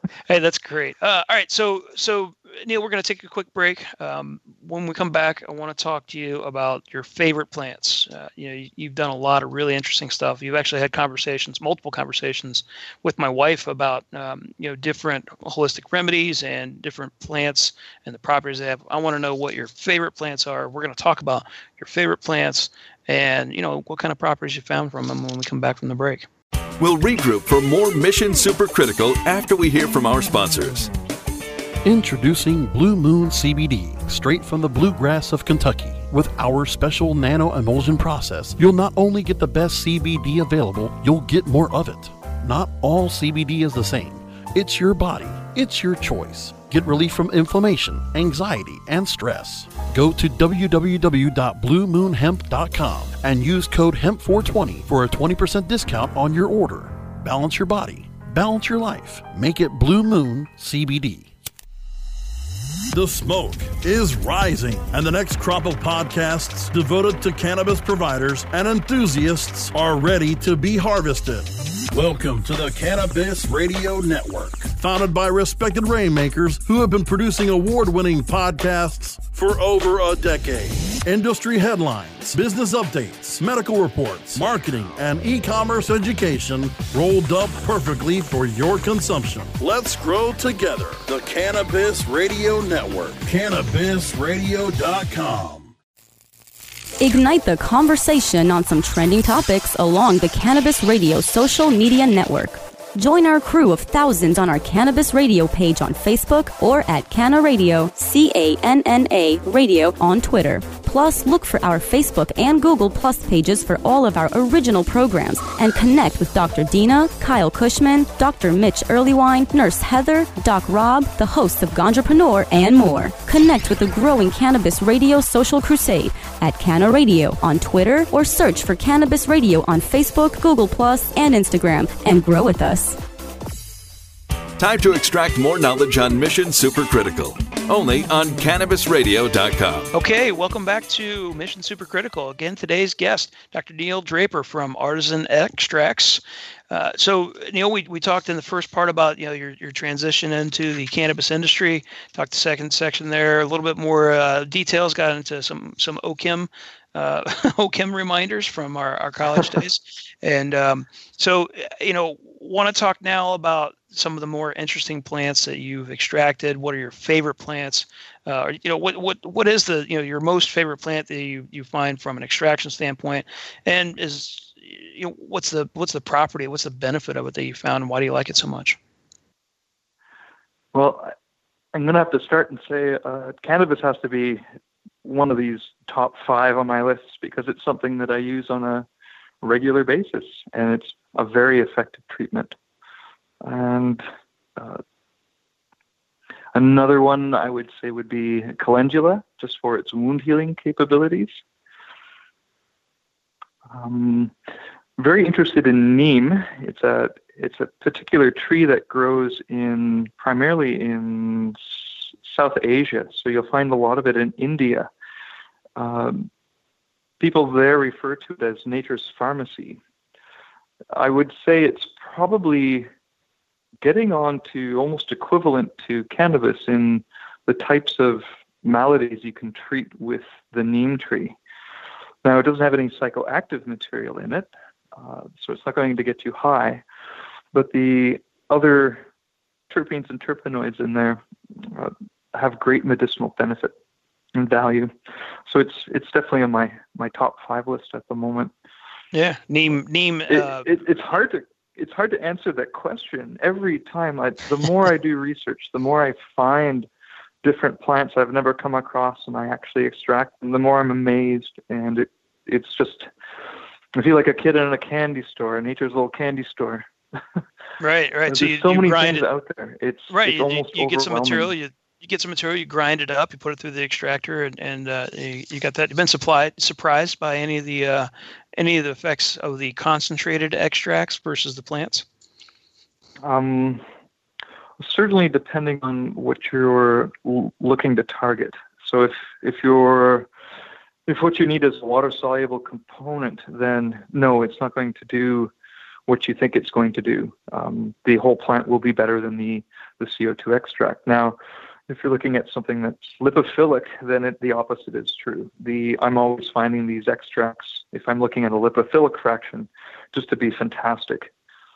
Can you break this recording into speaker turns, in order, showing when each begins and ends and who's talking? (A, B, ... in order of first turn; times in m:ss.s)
0:00.3-0:26.3 A
0:26.8-0:30.9 B
0:31.8-1:01.3 C
1:02.9-1:35.7 C
1:37.0-2:13.0 D
2:14.6-2:19.9 B
2:19.9-2:58.8 A
3:00.7-3:01.1 E
3:01.7-3:04.4 E
3:05.0-3:08.9 E
3:09.4-3:12.6 E
3:13.4-3:14.0 E
3:16.5-3:21.4 E
3:23.7-3:24.3 E
3:25.0-3:34.9 E
3:35.8-3:36.3 E
3:37.2-3:39.8 E
3:40.9-3:42.9 E
3:43.8-3:51.4 E
3:52.2-3:56.8 E
3:57.5-3:59.1 E
3:59.7-4:03.7 E
4:04.4-4:04.9 E
4:05.5-4:08.5 E
4:09.1-4:10.7 A
4:10.3-4:16.9 E
4:17.4-4:23.1 E
4:23.9-4:27.4 E
4:27.8-4:29.3 A
4:28.3-4:31.5 E
4:30.1-4:42.0 A
4:43.2-4:43.8 E
4:44.8-4:50.3 E
4:51.1-4:55.5 E
4:56.1-5:01.4 E
5:01.9-5:11.3 E